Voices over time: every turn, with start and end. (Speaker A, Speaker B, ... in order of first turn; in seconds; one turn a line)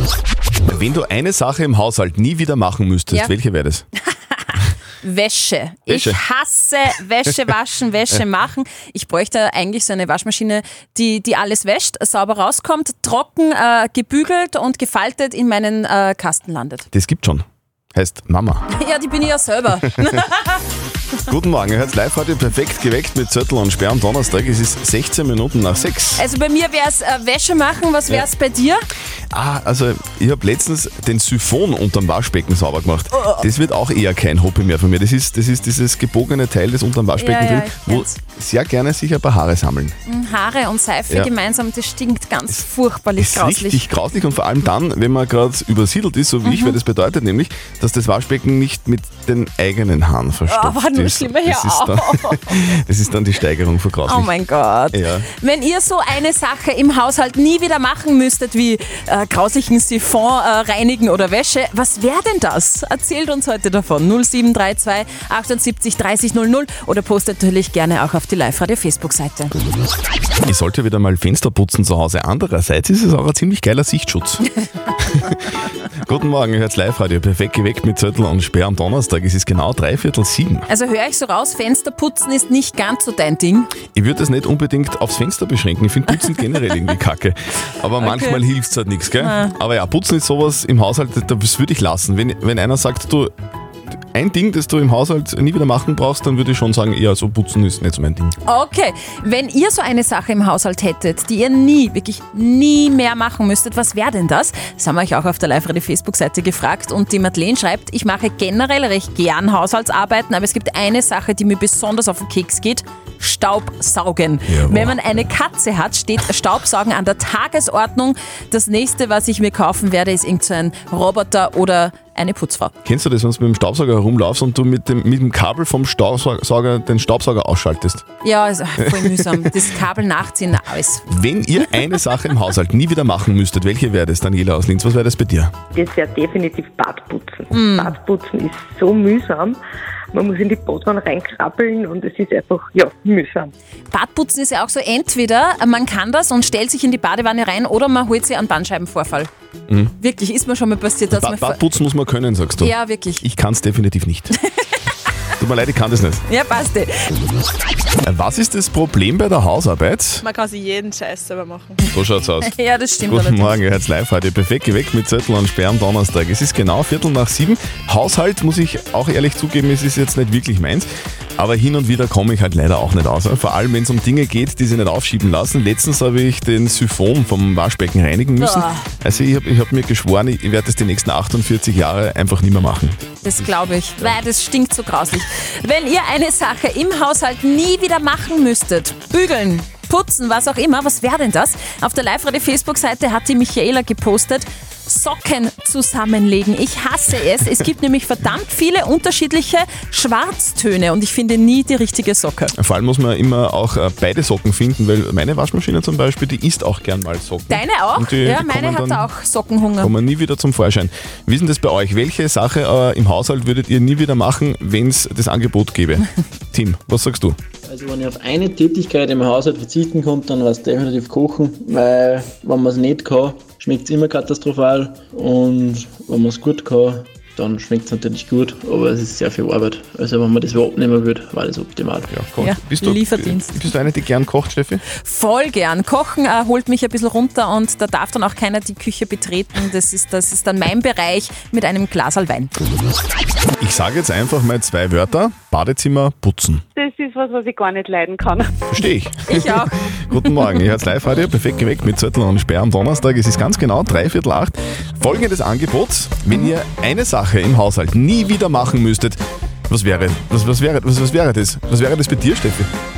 Speaker A: 0.7-3.9
Speaker B: 5.0-16.9
Speaker A: 5.9-6.2
Speaker A: 16.9-18.7
Speaker B: 18.7-20.6
Speaker A: 21.3-26.2
Speaker B: 26.2-28.9
Speaker A: 29.3-40.0
Speaker B: 37.2-38.2
Speaker B: 40.1-43.8
Speaker A: 43.2-54.3
Speaker B: 46.4-46.8
Speaker B: 50.5-52.6
Speaker B: 54.1-69.5
Speaker A: 54.9-55.3
Speaker A: 70.5-74.5
Speaker A: 75.1-75.4
Speaker A: 76.0-80.7
Speaker B: 80.7-83.7
Speaker A: 83.9-93.3
Speaker B: 88.0-88.4
Speaker B: 89.1-89.5
Speaker A: 94.1-98.3
Speaker B: 98.5-122.7
Speaker A: 114.5-115.2
Speaker A: 122.8-128.1
Speaker B: 128.2-131.1
Speaker A: 128.9-129.5
Speaker A: 131.1-135.5
Speaker C: 135.8-139.6
Speaker B: 137.5-138.0
Speaker C: 140.1-143.5
Speaker B: 143.9-149.3
Speaker B: 150.0-151.6
Speaker A: 151.1-154.3
Speaker B: 152.6-153.2
Speaker A: 155.4-156.2
Speaker B: 156.3-157.1
Speaker A: 158.1-160.2
Speaker D: 160.2-161.8
Speaker A: 161.9-162.5
Speaker B: 162.4-163.6
Speaker A: 163.1-170.9
Speaker A: 171.4-184.1
Speaker B: 178.4-178.9
Speaker B: 183.2-202.5
Speaker A: 202.6-209.1
Speaker B: 207.5-209.9
Speaker A: 209.8-217.4
Speaker E: 217.7-232.1
Speaker A: 232.1-234.8
Speaker B: 232.4-233.7
Speaker B: 235.0-242.5
Speaker A: 243.6-246.6
Speaker D: 246.8-248.5
Speaker A: 248.7-262.7
Speaker B: 249.3-250.4